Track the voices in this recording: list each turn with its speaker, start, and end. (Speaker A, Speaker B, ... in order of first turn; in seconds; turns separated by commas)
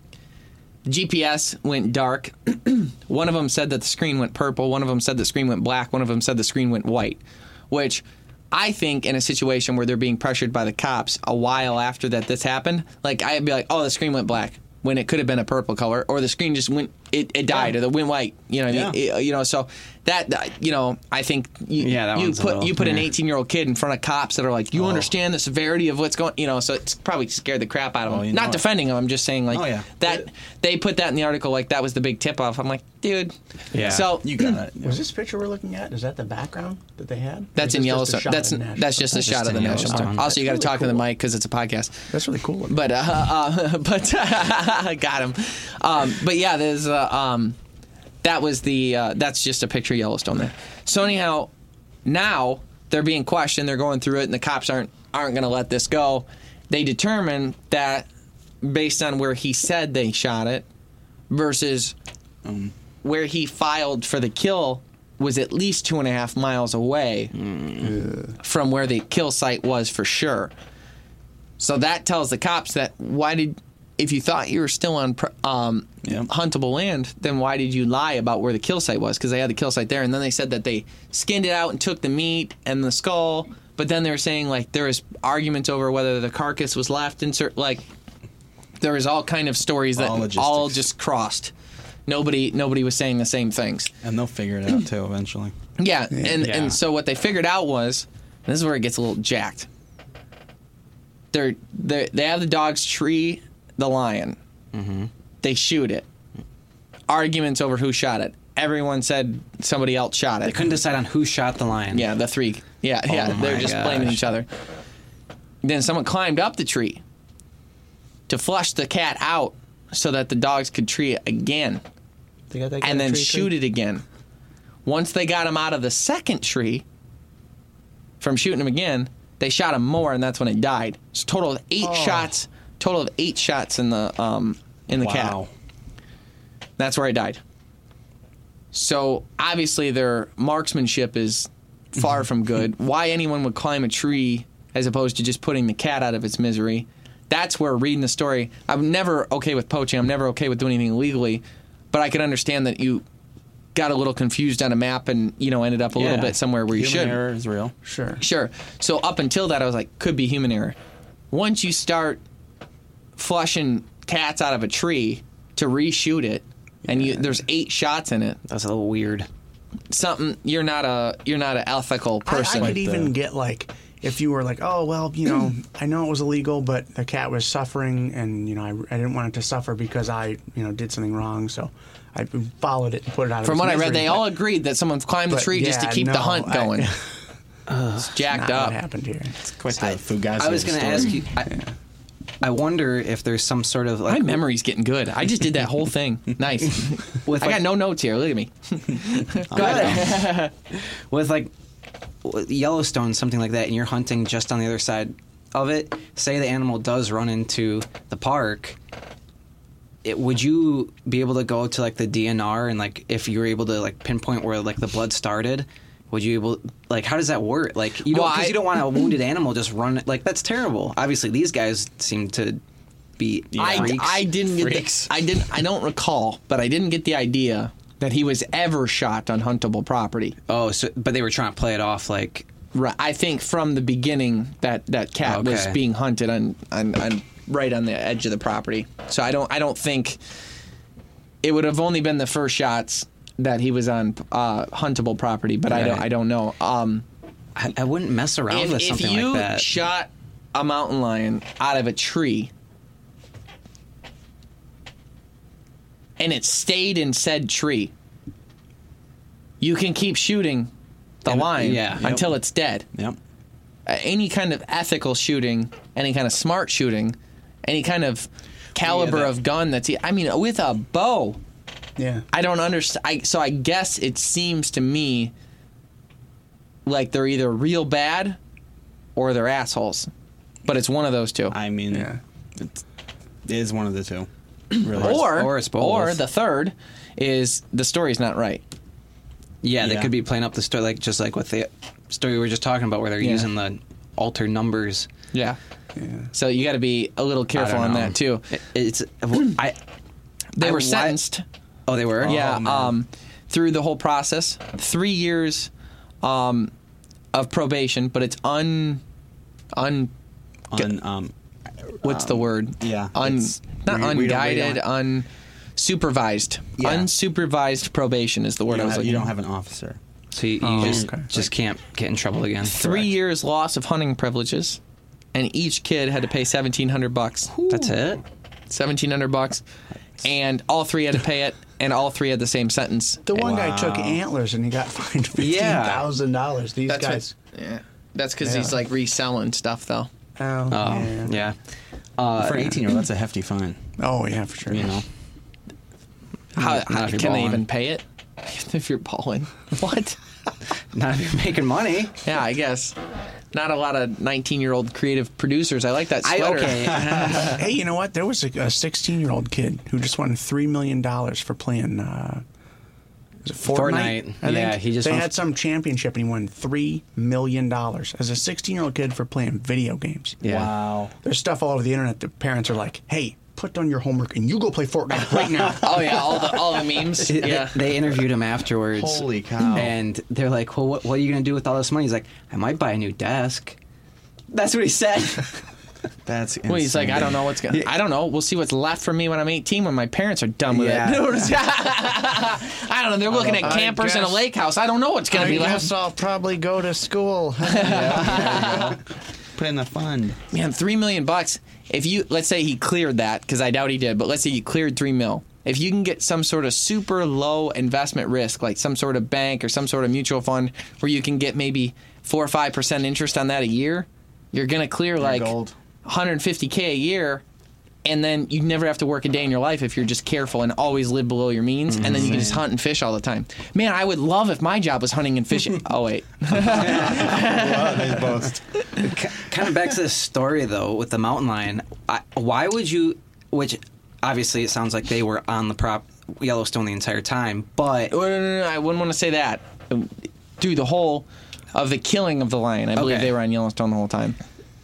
Speaker A: 0.9-34.5, Speaker B: 18.7-19.0, Speaker C: 21.8-23.1, Speaker B: 24.8-25.1, Speaker B: 28.1-28.7, Speaker B: 29.5-30.3, Speaker C: 33.7-34.1, Speaker B: 33.7-35.0, Speaker D: 34.8-41.0, Speaker A: 37.6-42.0, Speaker C: 39.1-40.8, Speaker D: 42.1-42.8, Speaker A: 42.7-47.6, Speaker A: 48.2-51.5, Speaker A: 52.0-58.1, Speaker A: 58.6-60.6, Speaker A: 61.3-62.0, Speaker B: 62.5-62.7, Speaker A: 63.0-67.3, Speaker C: 67.3-68.0, Speaker D: 67.8-68.3, Speaker A: 68.4-70.5, Speaker A: 71.6-87.8, Speaker B: 76.0-76.3, Speaker A: 88.8-91.5, Speaker B: 90.0-90.8, Speaker A: 92.1-93.9, Speaker B: 94.0-95.5, Speaker A: 95.8-99.7, Speaker D: 96.1-96.4, Speaker C: 96.4-96.8, Speaker A: 101.3-104.4, Speaker C: 104.7-105.1, Speaker A: 105.4-106.1, Speaker A: 107.1-110.6, Speaker C: 110.4-112.1, Speaker A: 111.9-114.5, Speaker C: 113.1-114.2, Speaker A: 115.6-117.0, Speaker A: 118.3-121.8, Speaker D: 122.5-123.5, Speaker A: 122.8-124.0, Speaker A: 124.8-126.8, Speaker A: 128.2-135.4, Speaker D: 131.8-132.3, Speaker B: 134.9-135.5, Speaker A: 136.8-137.4, Speaker A: 138.7-153.0, Speaker A: 153.8-157.2, Speaker C: 156.0-156.3, Speaker B: 156.0-157.7, Speaker D: 157.8-158.2, Speaker A: 158.2-160.8, Speaker A: 161.3-162.2, Speaker A: 163.2-168.4, Speaker D: 166.8-167.3, Speaker C: 168.5-169.3, Speaker A: 169.9-172.8, Speaker D: 172.2-184.4, Speaker B: 172.6-173.1, Speaker A: 183.4-186.9, Speaker D: 185.3-187.1, Speaker C: 187.7-188.1, Speaker A: 188.0-188.8, Speaker D: 188.2-189.3, Speaker B: 189.4-191.2, Speaker C: 189.7-191.6, Speaker C: 192.4-194.4, Speaker A: 194.1-200.5, Speaker C: 197.3-197.6, Speaker B: 199.5-200.2, Speaker C: 199.5-200.3, Speaker C: 201.1-201.5, Speaker C: 202.2-208.8, Speaker C: 210.0-222.6, Speaker A: 218.1-218.8, Speaker C: 223.2-225.1, Speaker B: 223.5-224.7, Speaker A: 223.6-230.3, Speaker C: 230.5-232.5, Speaker A: 232.7-240.2, Speaker C: 235.2-235.8, Speaker A: 241.4-247.0, Speaker C: 245.7-246.1, Speaker C: 247.6-249.8, Speaker A: 248.5-252.5, Speaker A: 256.2-257.9, Speaker A: 259.6-260.7, Speaker A: 261.2-262.9, Speaker C: 261.3-262.1, Speaker B: 261.9-262.4, Speaker A: 263.9-271.4, Speaker B: 268.8-269.2, Speaker D: 272.0-272.3, Speaker A: 272.3-275.3, Speaker A: 276.9-278.4, Speaker A: 279.2-280.1, Speaker A: 280.7-281.6, Speaker B: 281.5-282.8, Speaker D: 281.9-282.2, Speaker B: 283.4-285.3, Speaker A: 284.8-288.6, Speaker C: 284.9-286.2, Speaker C: 289.6-295.1, Speaker B: 289.8-290.1, Speaker A: 293.2-293.5, Speaker A: 295.3-295.6, Speaker D: 296.0-296.3, Speaker A: 296.3-298.5, Speaker C: 297.5-299.8, Speaker A: 300.6-301.4, Speaker C: 300.6-301.2, Speaker C: 301.9-302.4, Speaker B: 302.2-302.9, Speaker A: 302.2-305.7, Speaker A: 306.2-306.7, Speaker A: 307.3-309.0, Speaker A: 309.8-310.1, Speaker B: 310.7-314.8, Speaker A: 312.0-319.3, Speaker B: 316.8-317.1, Speaker B: 318.7-320.0, Speaker C: 320.3-323.1, Speaker B: 320.7-321.4, Speaker D: 320.8-321.3, Speaker A: 322.7-324.8, Speaker A: 325.3-327.5, Speaker C: 327.6-328.2, Speaker A: 328.7-329.6, Speaker A: 330.2-333.2, Speaker D: 333.3-337.3, Speaker B: 333.4-334.2, Speaker C: 335.4-336.1, Speaker A: 336.9-340.1, Speaker D: 338.4-338.8, Speaker D: 340.4-341.4, Speaker C: 340.7-341.6, Speaker C: 342.2-342.8, Speaker B: 342.4-343.8, Speaker D: 344.0-345.0, Speaker B: 344.7-345.1, Speaker A: 346.6-350.2, Speaker C: 346.6-347.6, Speaker C: 350.9-352.2, Speaker A: 352.2-353.0, Speaker A: 353.5-357.5, Speaker C: 356.2-357.6, Speaker D: 357.3-362.4, Speaker D: 363.4-370.4, Speaker C: 363.7-365.3, Speaker C: 370.4-370.7, Speaker B: 370.4-371.1, Speaker D: 371.2-376.2, Speaker C: 375.3-375.7, Speaker A: 375.8-377.9, Speaker C: 377.2-383.8, Speaker B: 378.9-379.9, Speaker C: 384.5-385.6, Speaker B: 386.2-387.4, Speaker A: 386.7-395.9, Speaker C: 390.7-391.6, Speaker B: 393.3-393.8, Speaker D: 393.5-394.5, Speaker D: 395.3-398.9, Speaker A: 397.7-399.0, Speaker B: 397.8-399.0, Speaker B: 399.6-400.4, Speaker A: 400.5-415.5, Speaker B: 415.2-415.8, Speaker A: 416.1-417.4, Speaker A: 418.1-429.1, Speaker C: 421.9-422.6, Speaker B: 422.0-422.6, Speaker B: 426.5-429.1, Speaker C: 429.0-438.1, Speaker A: 438.1-444.4, Speaker C: 443.0-443.3